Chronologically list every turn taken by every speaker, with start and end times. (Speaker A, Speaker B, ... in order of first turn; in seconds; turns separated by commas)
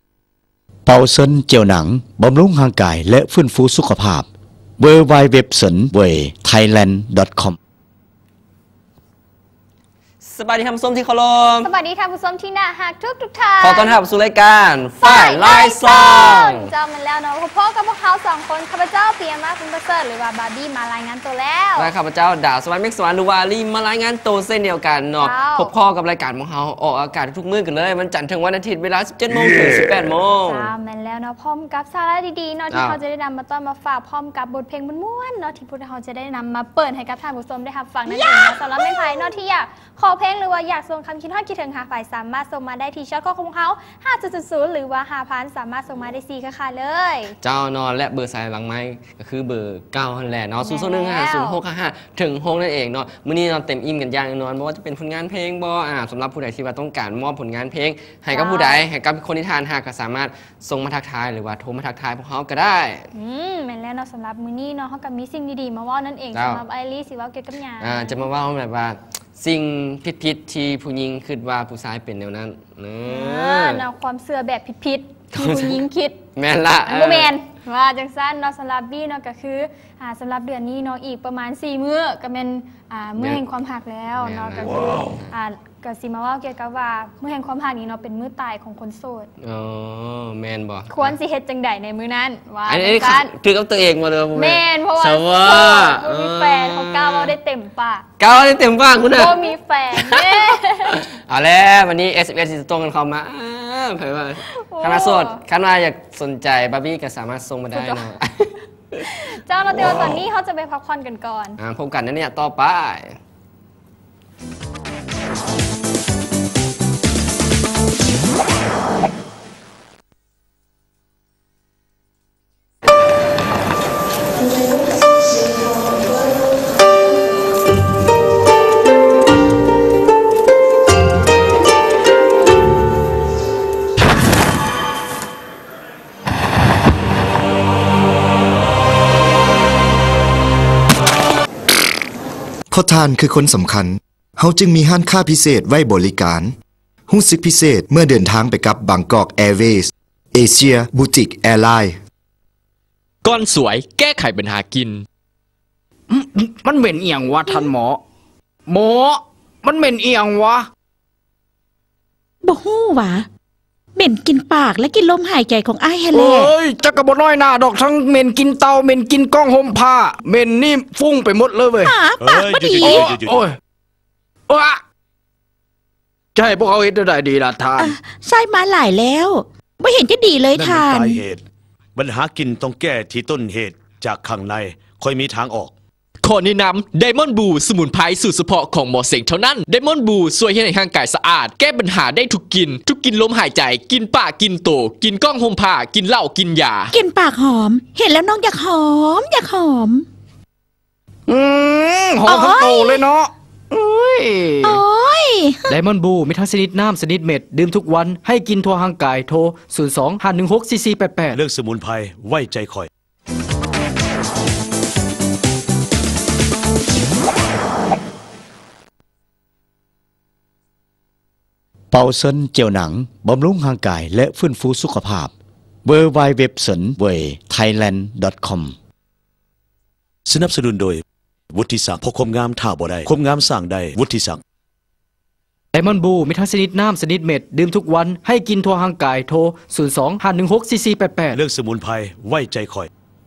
Speaker A: 0.9-4.3, Speaker A: 4.8-7.5, Speaker B: 10.2-11.7, Speaker C: 11.6-14.0, Speaker B: 13.6-16.7, Speaker C: 15.0-21.9, Speaker B: 21.8-30.7, Speaker C: 25.2-25.7, Speaker C: 30.5-47.4, Speaker B: 32.7-33.0, Speaker B: 47.4-63.0, Speaker C: 50.6-51.6, Speaker C: 58.3-58.8, Speaker C: 63.1-68.3, Speaker B: 66.3-66.6, Speaker B: 67.8-73.8, Speaker C: 73.1-76.2, Speaker B: 75.3-75.8, Speaker B: 76.4-77.3, Speaker C: 76.9-89.3, Speaker B: 84.2-85.3, Speaker B: 89.4-91.2, Speaker C: 90.9-93.3, Speaker B: 92.7-97.3, Speaker C: 94.3-98.1, Speaker B: 98.2-108.5, Speaker C: 99.2-101.0, Speaker C: 104.5-105.4, Speaker C: 107.7-108.1, Speaker C: 109.1-111.6, Speaker B: 111.6-113.2, Speaker D: 142.7-146.6, Speaker D: 147.1-152.0, Speaker E: 153.2-155.1, Speaker F: 156.1-158.0, Speaker F: 158.7-160.7, Speaker G: 162.4-163.3, Speaker G: 163.9-166.5, Speaker F: 166.1-173.6, Speaker G: 171.8-173.1, Speaker H: 172.2-173.5, Speaker F: 174.5-174.8, Speaker F: 176.3-177.9, Speaker G: 177.8-181.2, Speaker H: 180.5-181.4, Speaker H: 182.0-185.7, Speaker E: 186.2-196.9, Speaker G: 196.9-200.1, Speaker F: 201.3-204.8, Speaker G: 202.3-203.0, Speaker G: 204.6-205.7, Speaker I: 205.7-211.4, Speaker H: 211.3-212.9, Speaker A: 221.9-225.3, Speaker A: 225.8-228.8, Speaker H: 230.3-234.4, Speaker I: 235.7-241.4, Speaker H: 241.3-242.9